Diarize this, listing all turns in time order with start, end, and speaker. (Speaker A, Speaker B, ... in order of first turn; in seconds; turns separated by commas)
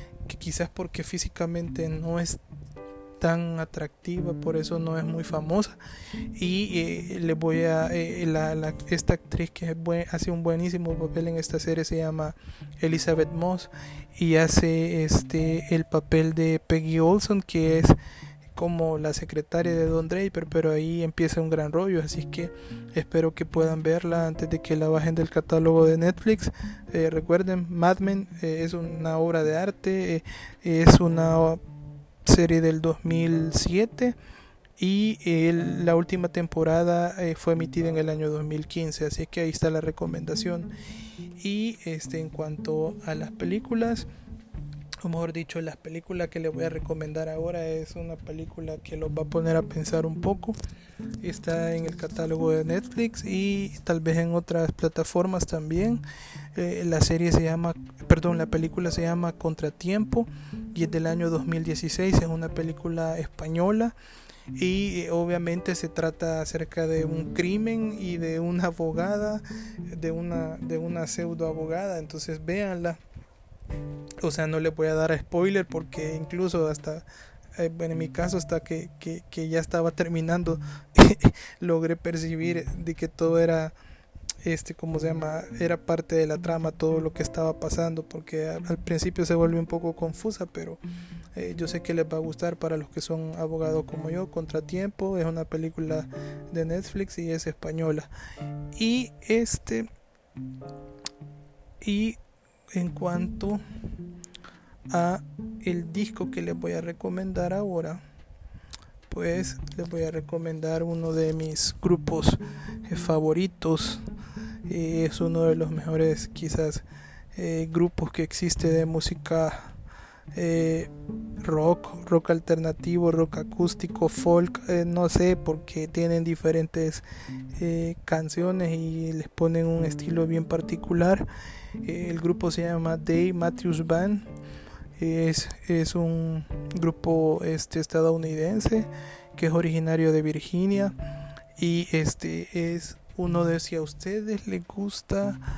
Speaker A: 0.3-2.4, Speaker A: 3.2-5.8, Speaker A: 6.3-18.0, Speaker A: 18.6-31.6, Speaker A: 32.2-34.2, Speaker A: 34.8-40.7, Speaker A: 41.4-44.1, Speaker A: 45.0-50.6, Speaker A: 51.2-56.0, Speaker A: 56.5-64.0, Speaker A: 64.5-73.0, Speaker A: 74.2-83.8, Speaker A: 84.4-90.8, Speaker A: 91.3-98.1, Speaker A: 98.8-99.9, Speaker A: 101.8-102.2, Speaker A: 102.7-103.6, Speaker A: 104.9-108.0, Speaker A: 109.1-114.0, Speaker A: 114.7-119.8, Speaker A: 120.3-120.9, Speaker A: 121.4-131.3, Speaker A: 131.8-134.3, Speaker A: 135.0-140.9, Speaker A: 141.6-145.4